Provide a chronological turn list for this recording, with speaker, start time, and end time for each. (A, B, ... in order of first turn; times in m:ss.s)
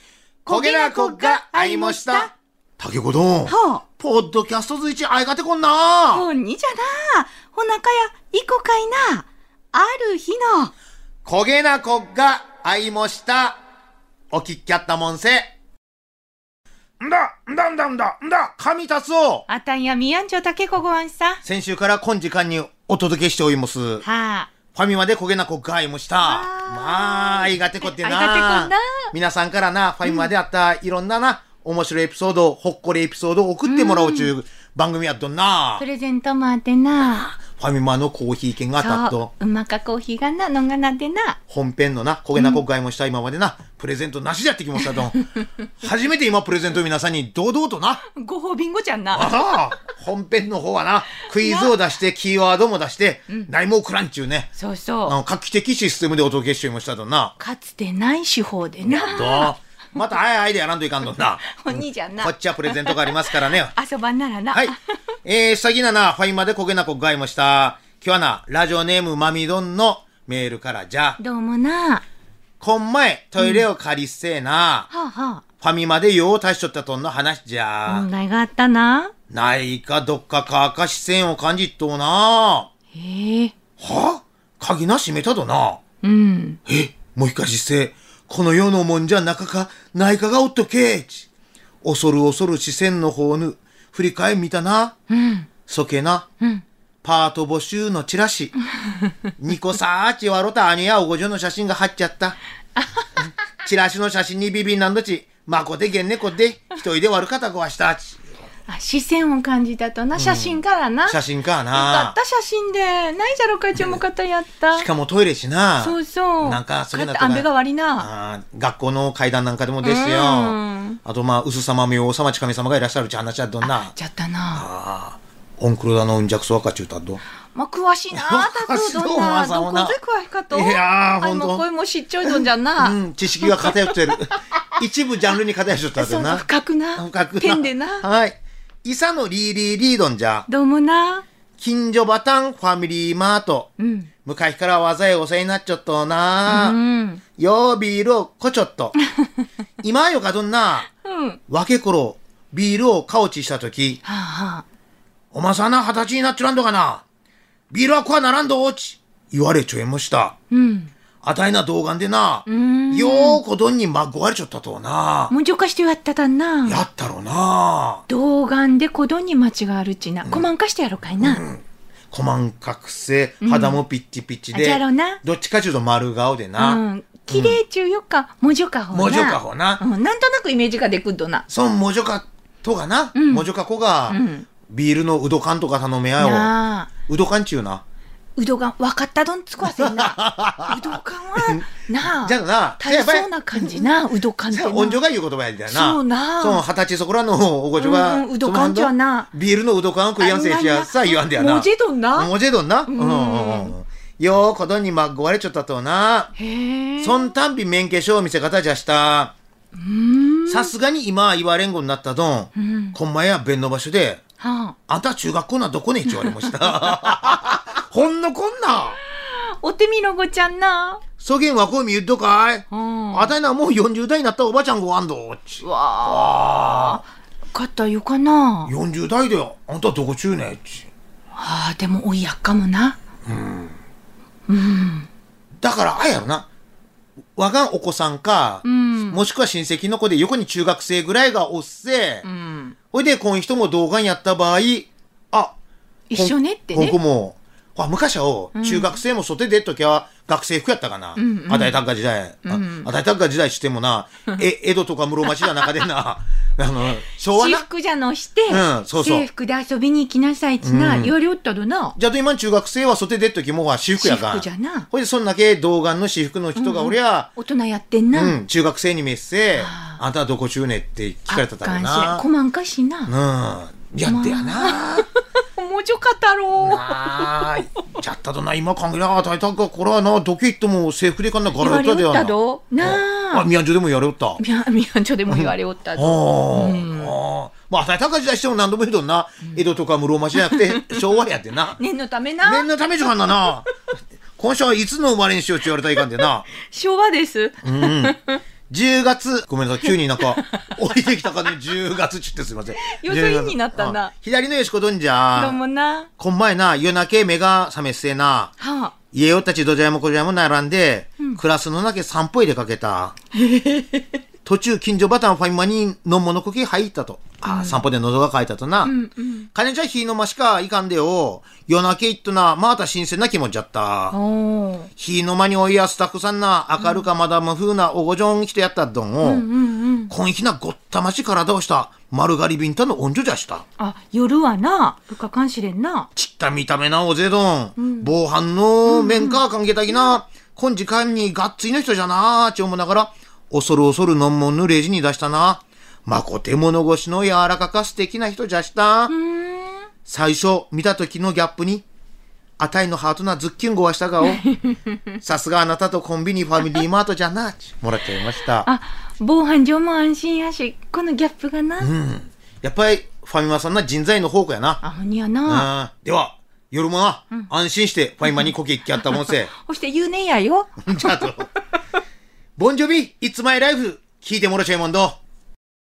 0:00.5-0:02.3 A
0:00.5-0:06.3 B
0:03.5-0:03.8 A
0:06.1-0:10.7 A
0:11.2-0:13.6 B
0:14.3-0:15.5 B
0:17.0-0:19.5 B
0:19.5-0:21.4 A
0:21.4-0:24.0 B
0:24.0-0:24.5 A
0:24.7-0:35.8 B
0:26.2-0:29.1 A
0:33.6-0:34.3 A
0:35.8-0:37.3 A
0:37.1-0:39.3 B
0:38.8-0:41.4 A
0:41.5-0:45.2 B
0:42.4-0:42.6 A
0:44.8-0:45.1 A
0:45.8-0:48.0 B
0:48.1-0:49.6 A
0:49.1-0:54.5 B
0:51.3-0:51.7 A
0:54.6-0:55.2 A
0:55.1-0:57.4 B
0:57.4-0:59.5 A
0:58.8-1:03.7 B
1:01.4-1:04.8 A
1:04.5-1:11.2 B
1:11.2-1:12.0 A
1:12.6-1:14.9 B
1:13.4-1:13.7 A
1:14.9-1:15.4 A
1:15.6-1:18.1 B
1:17.9-1:19.1 A
1:19.3-1:22.7 B
1:22.9-1:23.6 A
1:23.8-1:25.8 B
1:26.0-1:26.6 A
1:26.7-1:31.3 B
1:31.8-1:35.0 B
1:35.1-1:35.5 A
1:35.7-1:36.3 B
1:37.0-1:38.6 B
1:39.4-1:42.4 B
1:42.8-1:43.1 A
1:43.6-1:48.2 B
1:48.7-1:51.2 A
1:50.2-1:52.2 B
1:51.7-1:54.9 A
1:53.8-1:54.0 B
1:54.7-2:03.9 B
1:55.8-1:58.1 A
1:59.8-2:01.0 A
2:03.6-2:04.7 A
2:04.5-2:07.2 B
2:07.5-2:14.0 A
2:08.1-2:10.0 B
2:10.5-2:11.6 B
2:12.2-2:16.4 B
2:16.0-2:18.1 A
2:17.0-2:20.5 B
2:20.5-2:21.2 A
2:21.6-2:23.7 B
2:23.8-2:24.1 A
2:24.2-2:26.8 B
2:26.5-2:27.2 A
2:27.4-2:29.0 B
2:29.8-2:30.9 B
2:31.0-2:31.4 A
2:31.5-2:34.0 B
2:34.0-2:34.6 A
2:35.3-2:37.0 B
2:37.7-2:40.4 B
2:40.5-2:40.9 A
2:41.2-2:45.3 B
2:42.5-2:43.4 A
2:45.3-2:46.8 A
2:46.7-2:48.0 B
2:48.1-2:51.4 A
2:51.2-2:57.6 B
2:53.4-2:53.8 A
2:54.5-2:55.2 A
2:56.6-3:01.5 A
2:58.9-2:59.8 B
3:01.5-3:06.5 B
3:03.2-3:03.5 A
3:04.1-3:04.5 A
3:06.2-3:06.9 A
3:07.0-3:07.8 B
3:08.4-3:15.0 A
3:09.6-3:13.9 B
3:14.5-3:26.3 B
3:15.7-3:16.6 A
3:17.8-3:19.3 A
3:20.2-3:22.3 A
3:22.9-3:23.7 A
3:26.4-3:27.3 A
3:27.0-3:29.3 B
3:29.8-3:30.7 A
3:30.5-3:34.2 B
3:32.6-3:33.0 A
3:34.4-3:34.8 A
3:34.9-3:39.0 B
3:36.1-3:36.5 A
3:39.1-3:41.0 A
3:41.2-3:47.0 B
3:42.7-3:43.3 A
3:45.6-3:47.0 A
3:47.5-3:48.7 A
3:48.7-3:50.9 B
3:51.4-3:53.0 A
3:53.3-3:53.8 B
3:54.5-3:55.1 A
3:55.6-3:56.5 B
3:57.4-4:02.3 B
3:58.6-3:59.2 A
4:02.2-4:02.8 A
4:02.9-4:05.6 B
4:06.1-4:07.0 A
4:06.1-4:17.6 B
4:08.6-4:09.0 A
4:11.2-4:11.8 A
4:12.4-4:12.9 A
4:17.3-4:22.0 A
4:18.5-4:19.3 B
4:20.6-4:21.1 B
4:22.0-4:27.3 B
4:24.0-4:24.9 A
4:26.6-4:28.4 A
4:28.1-4:32.2 B
4:29.6-4:30.0 A
4:31.3-4:33.1 A
4:33.1-4:35.1 B
4:34.0-4:35.0 A
4:35.6-4:37.4 A
4:36.6-4:44.4 B
4:41.6-4:43.5 A
4:44.4-4:47.1 A
4:45.3-4:51.8 B
4:50.4-4:51.0 A
4:51.8-4:52.7 A
4:52.4-4:53.7 B
4:54.4-4:56.5 B
4:56.6-4:58.4 A
4:57.6-4:58.2 B
4:58.7-5:05.6 B
5:02.8-5:04.1 A
5:05.4-5:06.1 A
5:06.2-5:08.5 B
5:08.6-5:08.9 A
5:09.1-5:13.2 B
5:13.4-5:14.0 A
5:14.4-5:18.9 B
5:17.5-5:17.8 A
5:18.8-5:19.5 A
5:19.5-5:24.2 B
5:24.1-5:24.9 A
5:25.0-5:29.4 B
5:26.8-5:27.1 A
5:29.2-5:30.1 A
5:30.1-5:33.6 B
5:33.8-5:36.1 A
5:36.2-5:49.1 B
5:37.8-5:38.1 A
5:38.9-5:40.1 A
5:49.1-5:49.9 A
5:50.0-5:51.8 B
5:52.6-5:54.4 B
5:54.2-5:55.0 A
5:55.2-5:58.7 B
5:58.6-6:01.9 A
6:01.8-6:04.8 B
6:04.8-6:05.7 A
6:05.5-6:09.5 B
6:08.2-6:11.3 A
6:10.8-6:11.5 B
6:12.6-6:15.2 B